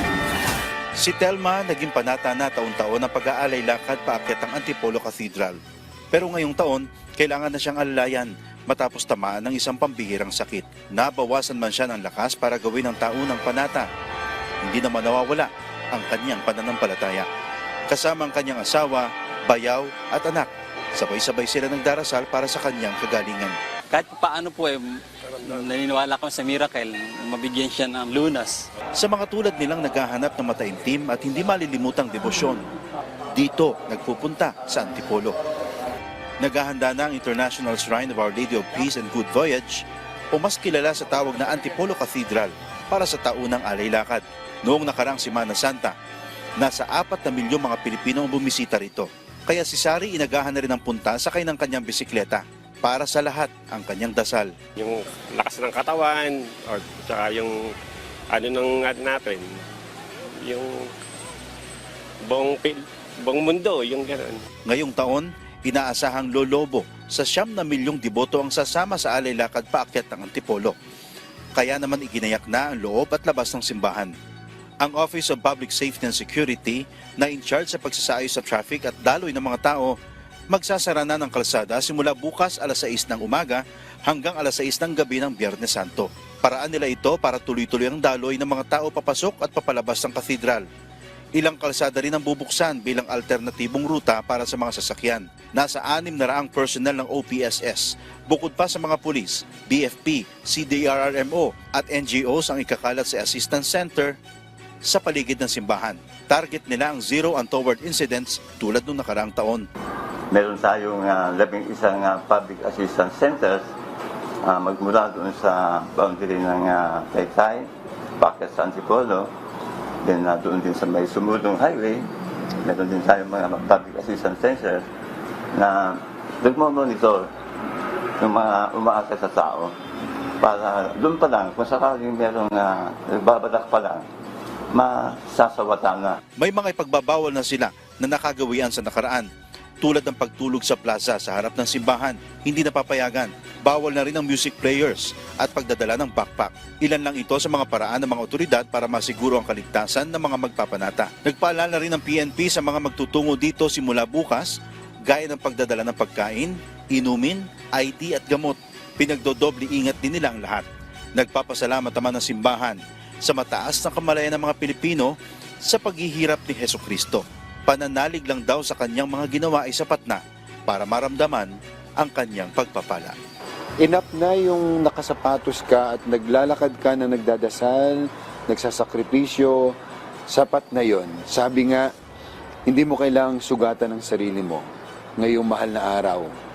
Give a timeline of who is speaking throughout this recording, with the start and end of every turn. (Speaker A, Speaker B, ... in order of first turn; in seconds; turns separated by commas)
Speaker A: 1.0-5.6, Speaker A: 6.1-13.9, Speaker A: 14.6-17.3, Speaker A: 17.9-23.6, Speaker B: 23.9-28.7, Speaker A: 28.9-32.7, Speaker A: 33.3-35.4, Speaker A: 36.4-46.0, Speaker A: 46.6-54.5, Speaker C: 54.8-57.7, Speaker C: 58.3-59.6, Speaker C: 60.4-60.9, Speaker C: 62.2-64.5, Speaker A: 64.7-70.8, Speaker A: 71.5-74.1, Speaker A: 74.8-80.0, Speaker A: 80.5-90.7, Speaker A: 91.4-104.2, Speaker A: 104.8-109.7, Speaker D: 110.3-113.7, Speaker D: 114.4-117.7, Speaker D: 118.2-119.3, Speaker D: 120.0-122.1, Speaker D: 122.6-124.9, Speaker D: 125.5-127.3, Speaker D: 128.2-129.8, Speaker D: 130.4-134.1, Speaker D: 134.7-136.2, Speaker A: 136.4-139.3, Speaker A: 139.8-173.2, Speaker E: 173.8-179.7, Speaker E: 180.3-181.9, Speaker E: 182.7-184.7, Speaker E: 185.2-186.3